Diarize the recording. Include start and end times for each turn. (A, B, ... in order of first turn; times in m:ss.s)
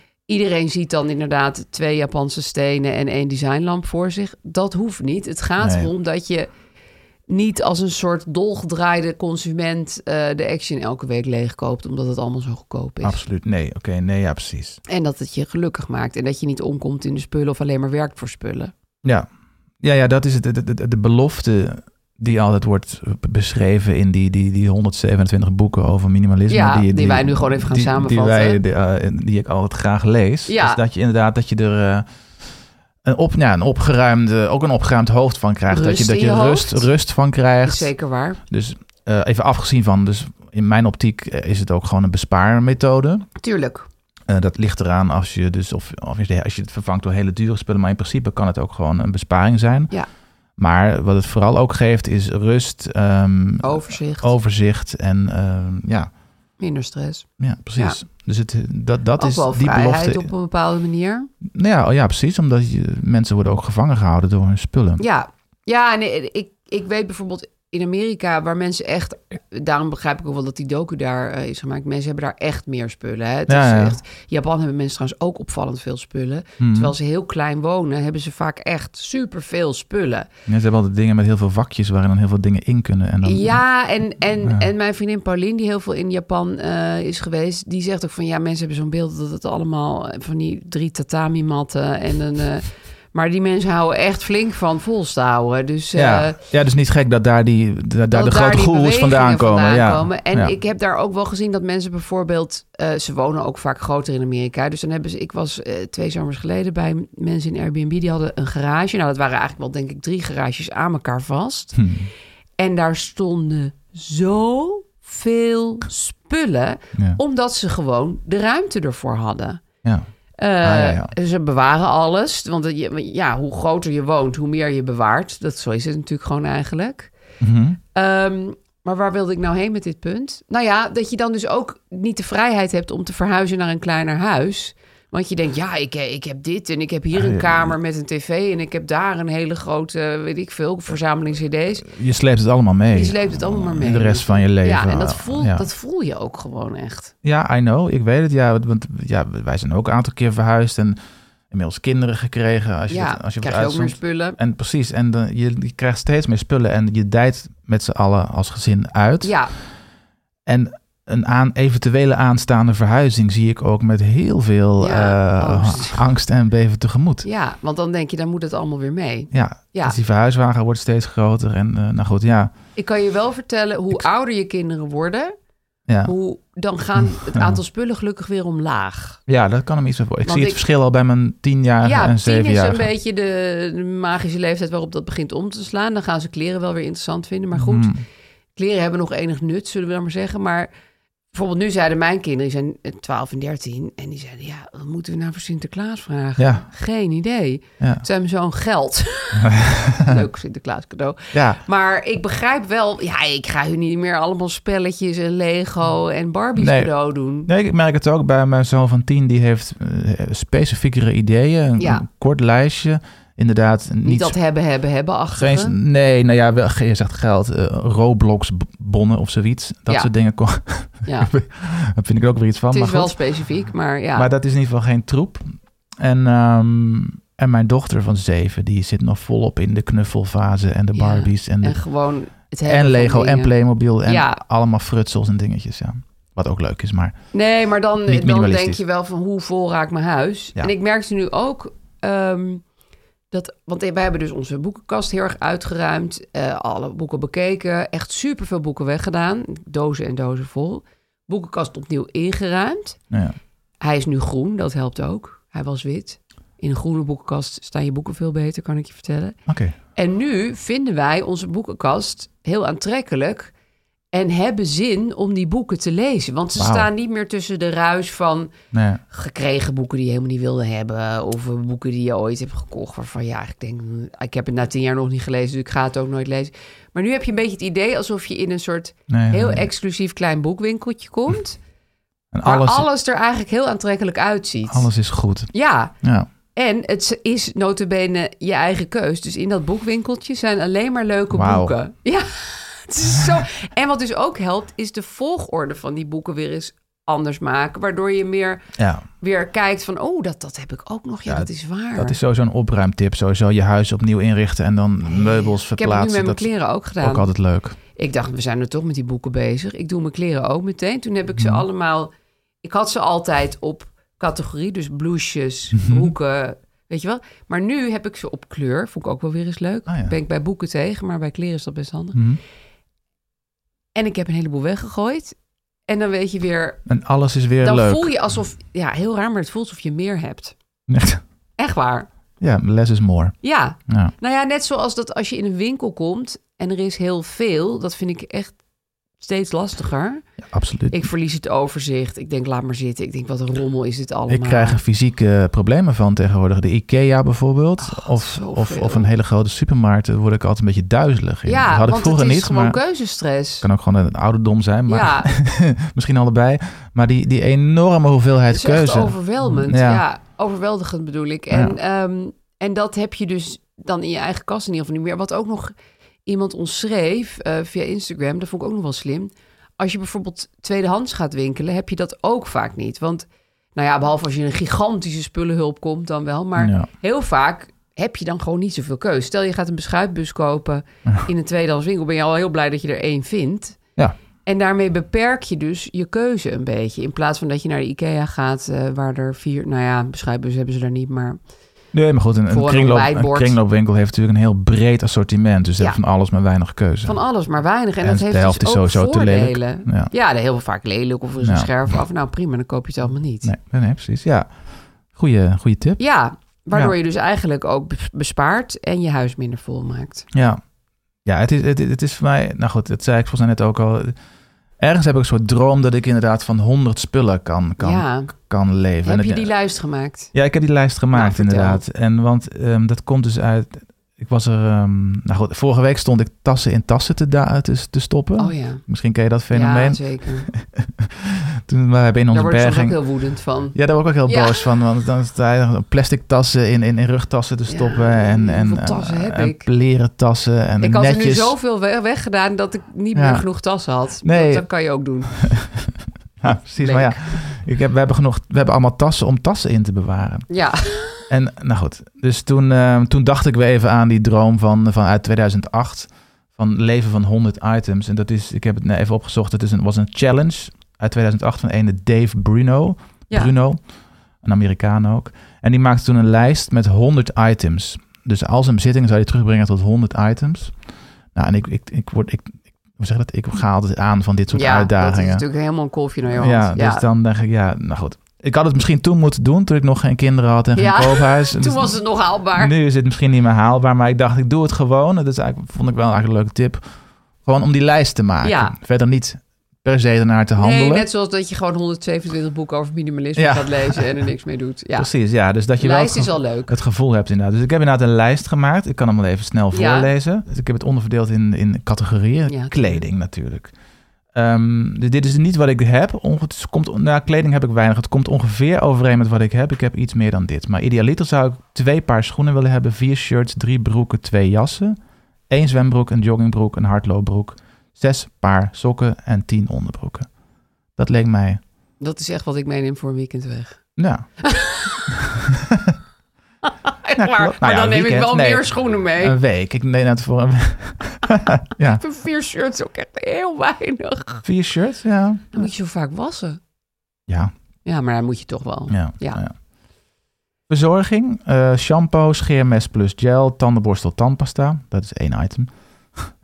0:00.3-0:06.5 A
0:05.6-0:05.9 B
0:07.3-0:13.2 A
0:13.0-0:14.8 B
0:14.9-0:18.7 A
0:19.8-0:32.1 B
0:26.5-0:28.6 A
0:30.5-0:30.8 A
0:33.0-0:37.9 B
0:35.7-0:36.9 A
0:37.6-0:38.4 A
0:38.5-0:43.3 B
0:43.4-0:43.9 A
0:44.3-0:49.9 B
0:50.6-0:56.1 B
0:53.6-0:54.3 A
0:56.6-0:57.3 A
0:57.4-1:00.3 B
0:59.2-1:01.3 A
1:01.5-1:05.0 B
1:05.0-1:20.3 A
1:13.5-1:14.0 B
1:16.6-1:16.9 B
1:20.5-1:23.6 B
1:23.2-1:36.4 A
1:35.9-1:40.5 B
1:38.1-1:51.8 A
1:51.8-1:52.1 B
1:52.6-1:59.6 A
1:57.0-1:57.2 B
2:00.4-2:07.1 A
2:00.6-2:01.1 B
2:07.4-2:07.8 B
2:08.0-2:21.9 A
2:17.1-2:17.7 B
2:21.8-2:25.7 B
2:22.9-2:27.1 A
2:27.2-2:31.0 B
2:31.5-2:39.4 B
2:32.9-2:34.4 A
2:39.2-2:39.5 A
2:40.5-2:47.3 B
2:44.8-2:46.0 A
2:47.2-2:50.0 A
2:49.3-2:52.5 B
2:52.8-2:55.3 A
2:55.9-2:56.1 B
2:56.0-2:59.2 A
2:57.0-2:57.6 B
2:59.3-3:02.9 B
3:00.2-3:00.6 A
3:01.8-3:07.9 A
3:07.5-3:08.0 B
3:08.6-3:10.7 A
3:11.3-3:27.5 A
3:16.4-3:16.6 B
3:17.8-3:18.0 B
3:19.4-3:20.2 B
3:21.3-3:21.6 B
3:26.6-3:26.9 B
3:27.5-3:34.4 B
3:31.8-3:32.0 A
3:34.0-3:35.8 A
3:35.4-3:43.2 B
3:41.1-3:41.3 A
3:42.7-3:44.3 A
3:44.2-3:51.8 B
3:51.0-3:53.5 A
3:52.6-3:57.2 B
3:54.1-3:54.4 A
3:57.3-4:02.6 A
3:58.1-3:58.8 B
4:03.3-4:13.0 A
4:13.1-4:13.4 B
4:13.8-4:19.4 A
4:19.5-4:19.8 B
4:20.0-4:23.5 A
4:24.1-4:28.5 A
4:26.6-4:26.9 B
4:28.7-4:29.0 B
4:29.1-4:41.6 A
4:39.1-4:39.6 B
4:42.3-4:42.9 B
4:42.4-4:44.9 A
4:44.7-4:45.5 B
4:45.5-4:45.9 A
4:46.0-4:46.3 B
4:46.5-4:58.6 A
4:51.3-4:51.8 B
4:58.8-4:59.0 B
4:59.2-5:02.2 A
5:01.3-5:06.5 B
5:05.1-5:07.3 A
5:07.0-5:07.8 B
5:08.0-5:12.1 A
5:11.4-5:11.6 B
5:12.6-5:22.2 A
5:15.8-5:16.1 B
5:19.9-5:20.1 B
5:22.1-5:22.4 B
5:24.0-5:25.4 A
5:25.9-5:26.8 A
5:26.9-5:28.1 B
5:27.6-5:30.5 A
5:30.9-5:31.2 B
5:31.6-5:32.1 A
5:32.4-5:33.4 B
5:33.4-5:38.6 A
5:39.2-5:40.2 A
5:40.4-5:41.1 B
5:40.9-5:44.8 A
5:44.3-5:52.8 B
5:47.8-5:49.1 A
5:51.5-5:53.7 A
5:53.6-6:00.0 B
5:54.9-5:55.3 A
5:58.5-6:05.7 A
6:01.5-6:01.8 B
6:06.3-6:23.8 A
6:16.6-6:16.9 B
6:24.4-6:31.4 A
6:31.9-6:37.2 B
6:32.5-6:33.6 A
6:37.0-6:43.5 A
6:38.0-6:40.1 B
6:41.4-6:41.7 B
6:43.4-6:44.5 B
6:45.1-6:46.0 B
6:46.0-6:50.3 A
6:50.3-6:50.6 B
6:51.2-6:54.2 B
6:54.8-6:59.5 B
6:57.8-6:58.3 A
6:59.0-7:00.3 A
7:00.3-7:13.0 B
7:01.1-7:01.8 A
7:08.4-7:08.8 A
7:09.5-7:10.5 A
7:12.3-7:14.6 A
7:13.7-7:21.6 B
7:17.7-7:19.7 A
7:20.8-7:25.4 A
7:23.1-7:23.4 B
7:24.2-7:24.7 B
7:26.4-7:30.5 B
7:26.8-7:27.4 A
7:30.5-7:31.2 A
7:31.3-7:43.8 B
7:44.4-7:50.8 B
7:51.4-7:55.4 B
7:54.5-7:57.0 A
7:56.3-8:02.0 B
8:00.8-8:02.7 A
8:02.5-8:06.8 B
8:07.4-8:11.1 B
8:08.4-8:08.8 A
8:10.6-8:15.1 A
8:13.4-8:14.0 B
8:15.0-8:23.7 B
8:15.8-8:16.8 A
8:19.7-8:20.1 A
8:22.5-8:23.0 A
8:24.3-8:35.0 B
8:35.5-8:40.3 B
8:41.0-8:41.6 B
8:42.0-8:43.8 A
8:44.0-8:44.3 B
8:44.4-8:45.1 A
8:45.1-8:46.0 B
8:46.6-8:49.4 A
8:47.2-8:52.0 B
8:51.9-8:54.4 A
8:54.4-8:55.7 B
8:55.5-8:56.6 A
8:57.3-8:57.5 B
8:57.8-8:59.4 A
8:58.9-8:59.5 B
9:00.7-9:06.3 B